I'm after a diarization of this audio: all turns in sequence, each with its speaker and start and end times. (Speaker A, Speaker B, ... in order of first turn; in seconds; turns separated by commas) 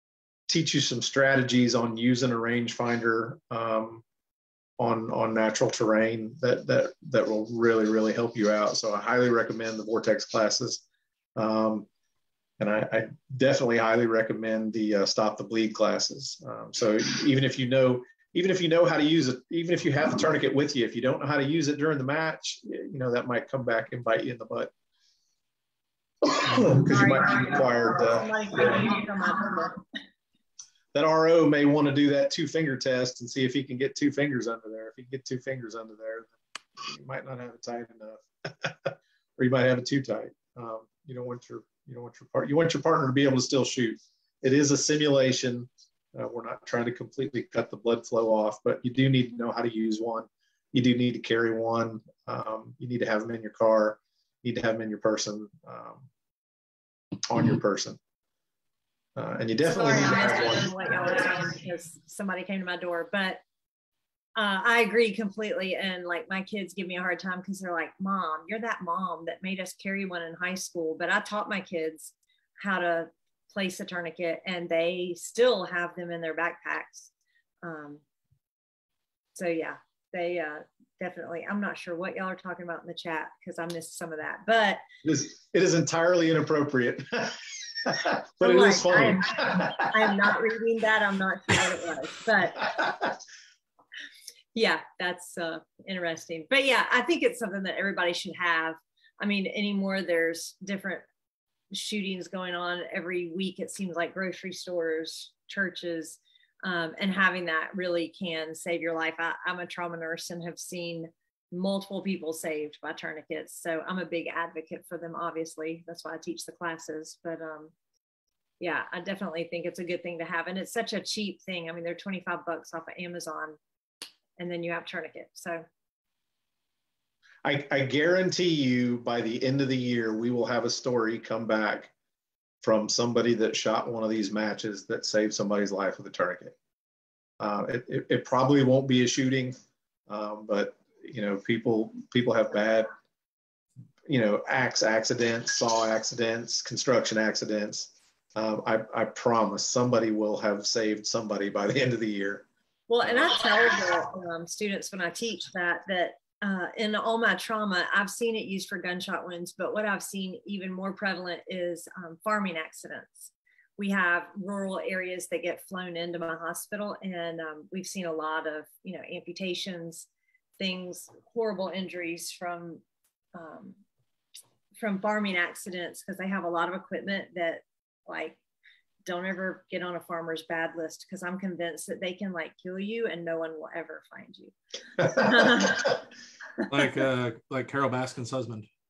Speaker A: 0.5-4.0, Speaker A: 4.8-10.8, Speaker A: 11.3-11.9, Speaker A: 12.6-24.7, Speaker A: 26.2-29.0, Speaker B: 26.8-29.8, Speaker A: 30.9-56.1, Speaker A: 57.3-58.0, Speaker A: 59.1-60.8, Speaker B: 59.6-63.4, Speaker B: 64.4-77.1, Speaker B: 77.6-78.0, Speaker B: 79.3-84.8, Speaker A: 85.0-89.9, Speaker B: 88.4-92.7, Speaker A: 92.6-93.1, Speaker B: 94.5-101.0, Speaker B: 101.7-117.7, Speaker B: 118.6-123.6, Speaker B: 124.4-125.7, Speaker A: 127.4-131.9, Speaker A: 132.6-136.5, Speaker A: 137.4-139.6, Speaker A: 140.1-142.9, Speaker A: 144.1-152.5, Speaker B: 152.9-170.1, Speaker A: 153.0-153.3, Speaker B: 170.6-172.8, Speaker B: 173.3-173.8, Speaker B: 174.8-178.4, Speaker B: 179.0-186.0, Speaker C: 186.7-188.7